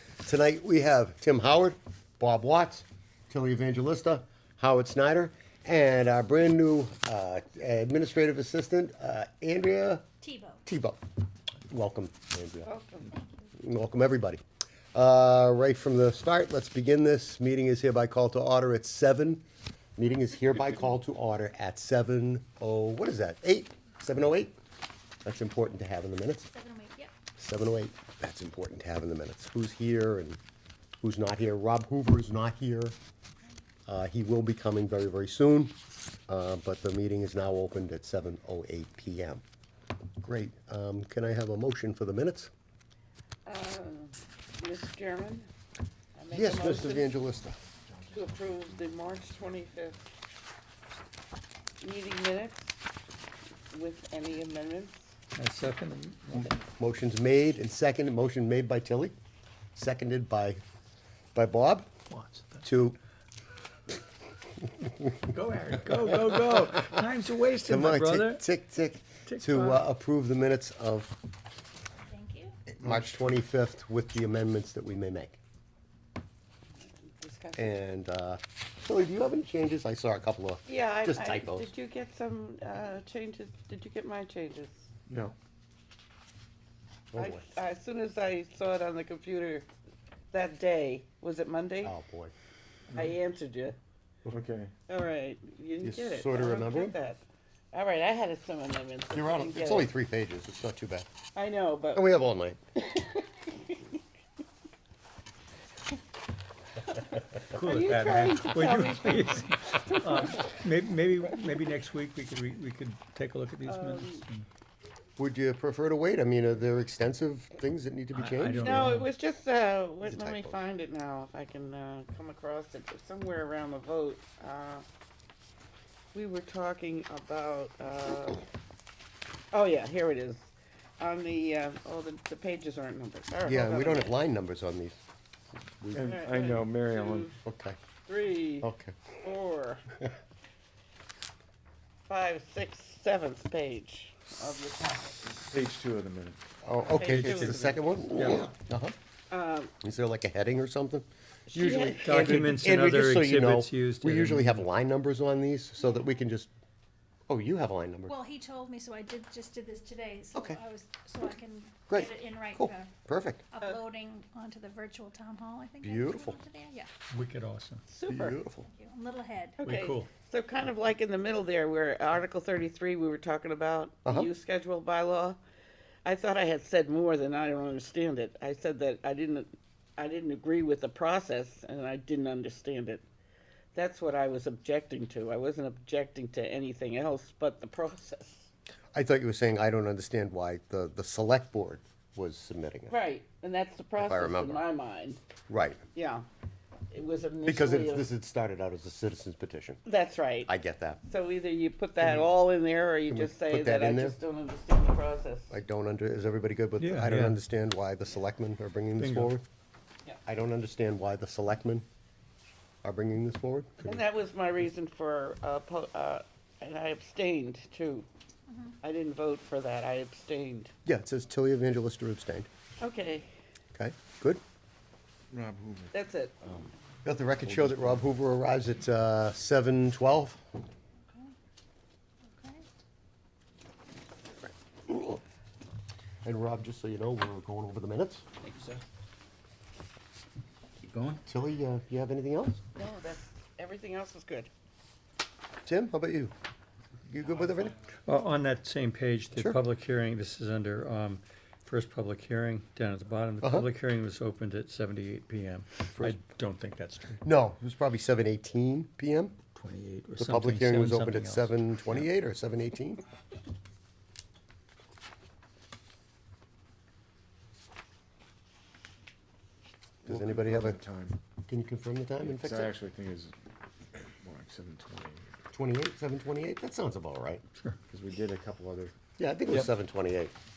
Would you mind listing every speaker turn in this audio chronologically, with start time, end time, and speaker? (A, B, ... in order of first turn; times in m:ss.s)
0:00.2-0:10.0 A
0:10.2-0:10.6 B
0:10.6-0:11.0 A
0:11.7-0:12.7 A
0:12.6-0:13.1 C
0:13.2-0:13.4 B
0:13.6-0:14.4 A
0:14.9-0:19.4 A
0:20.0-0:24.6 A
0:25.2-0:26.5 A
0:26.5-0:27.1 B
0:27.4-0:30.4 A
0:31.0-0:33.0 A
0:33.9-0:35.8 A
0:36.3-0:39.4 A
0:40.2-0:42.5 A
0:43.4-0:45.5 C
0:46.2-0:47.1 C
0:46.3-0:47.6 A
0:47.6-0:49.7 D
0:48.1-0:50.0 C
0:51.8-0:52.8 C
0:53.7-0:55.1 C
0:55.3-0:56.5 E
0:56.5-0:59.1 A
0:59.7-1:00.6 A
1:01.3-1:01.9 A
1:02.1-1:02.6 E
1:02.6-1:03.0 A
1:05.3-1:08.4 E
1:06.1-1:06.6 A
1:07.6-1:11.2 A
1:09.2-1:09.8 E
1:12.1-1:12.6 B
1:12.7-1:15.4 A
1:16.8-1:17.8 C
1:17.6-1:21.7 A
1:20.7-1:24.8 C
1:25.1-1:25.3 D
1:27.1-1:27.4 A
1:27.1-1:29.7 C
1:30.3-1:32.0 C
1:31.8-1:32.3 A
1:32.9-1:33.8 C
1:34.3-1:34.7 D
1:34.9-1:37.2 C
1:35.8-1:37.0 A
1:37.7-1:39.9 C
1:39.1-1:41.1 A
1:41.3-1:42.1 C
1:41.9-1:42.6 A
1:42.7-1:44.0 C
1:47.0-1:50.6 C
1:47.5-1:54.5 E
1:53.6-1:54.2 C
1:55.2-1:58.9 A
1:58.1-1:59.1 E
1:58.6-2:04.8 C
2:00.0-2:00.6 A
2:06.1-2:08.4 C
2:09.5-2:14.2 C
2:13.4-2:15.0 A
2:15.7-2:16.2 A
2:15.9-2:17.3 D
2:16.0-2:17.3 C
2:17.4-2:17.8 A
2:18.0-2:18.7 C
2:18.6-2:19.0 A
2:19.2-2:19.8 C
2:22.1-2:25.3 C
2:25.2-2:26.4 D
2:26.6-2:28.9 A
2:26.8-2:28.0 C
2:27.2-2:27.6 E
2:28.1-2:28.5 E
2:29.3-2:29.7 C
2:29.8-2:36.5 A
2:31.5-2:32.5 C
2:32.0-2:34.6 E
2:37.3-2:38.2 A
2:38.1-2:42.9 B
2:40.3-2:40.6 A
2:41.9-2:43.4 A
2:43.5-2:46.9 B
2:45.8-2:46.4 A
2:47.1-2:47.8 E
2:47.9-2:48.4 C
2:48.1-2:48.7 A
2:48.7-2:49.6 B
2:49.6-2:55.4 C
2:49.6-2:50.1 E
2:54.0-2:54.3 A
2:56.0-3:03.0 C
3:03.7-3:08.5 C
3:08.9-3:12.9 A
3:12.9-3:15.2 C
3:14.0-3:14.6 A
3:15.5-3:15.8 A
3:15.9-3:16.2 C
3:16.9-3:18.1 C
3:17.4-3:19.8 A
3:19.8-3:20.5 C
3:20.4-3:21.0 A
3:21.0-3:25.5 C
3:23.1-3:24.2 A
3:25.5-3:29.4 A
3:26.8-3:27.4 E
3:29.0-3:29.3 E
3:30.2-3:31.8 A
3:32.8-3:34.0 A
3:33.8-3:38.1 C
3:38.5-3:38.7 B
3:38.8-3:40.7 C
3:40.8-3:42.5 A
3:42.8-3:43.3 C
3:43.8-3:44.4 A
3:45.3-3:45.9 D
3:45.9-3:46.3 C
3:47.0-3:50.4 A
3:47.4-3:48.0 D
3:52.3-3:52.6 B
3:54.9-3:55.2 A
3:56.2-3:58.2 A
3:58.4-3:58.8 C
4:01.2-4:02.6 A
4:02.7-4:04.5 C
4:05.6-4:06.3 A
4:07.1-4:07.8 A
4:08.0-4:17.2 E
4:13.4-4:13.7 A
4:17.2-4:19.4 A
4:19.5-4:21.5 E
4:20.2-4:23.0 A
4:30.0-4:31.2 D
4:30.0-4:30.8 A
4:31.4-4:32.7 A
4:32.2-4:33.3 D
4:33.9-4:35.3 D
4:35.5-4:37.4 A
4:37.9-4:39.0 D
4:39.2-4:40.3 A